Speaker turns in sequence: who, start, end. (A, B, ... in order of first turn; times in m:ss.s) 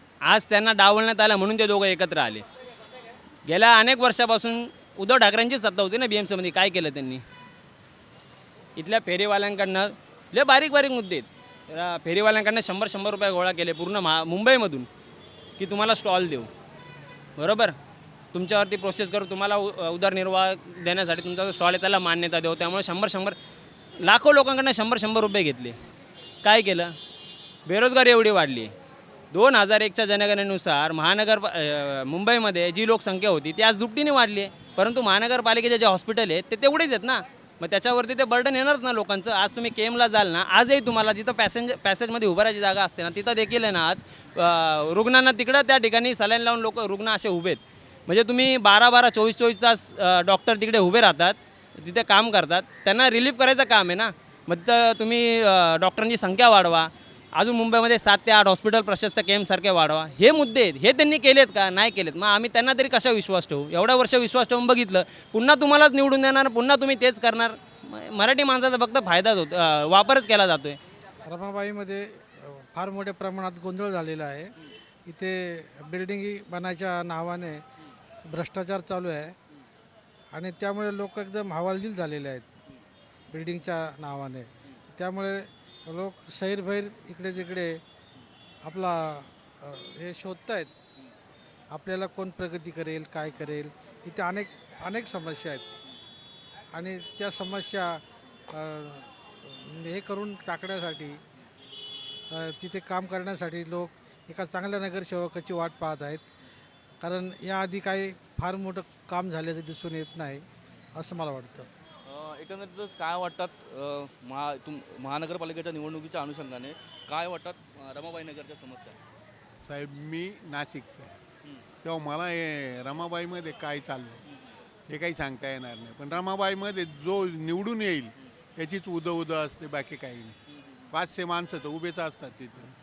0:00.2-0:02.4 A
0:03.4-0:07.2 A
0:08.8-0:14.9 A
0:15.6-0:16.5 A
0:17.4-0:17.8 A
0:18.3-0:23.4 A
0:24.0-0:25.8 A
0:26.4-0:27.0 A
0:27.6-0:28.7 A
0:29.3-1:10.8 A
1:11.2-1:14.5 B
1:15.0-1:17.6 B
1:18.3-1:19.3 B
1:20.3-1:22.5 B
1:23.3-1:27.8 B
1:28.6-1:30.7 B
1:31.7-1:35.6 B
1:36.7-1:41.2 B
1:42.3-1:46.2 B
1:47.0-1:51.7 B
1:52.0-1:59.0 C
1:59.6-2:01.2 D
2:01.8-2:04.2 D
2:04.9-2:10.4 D
2:10.5-2:10.8 C
2:10.9-2:12.7 D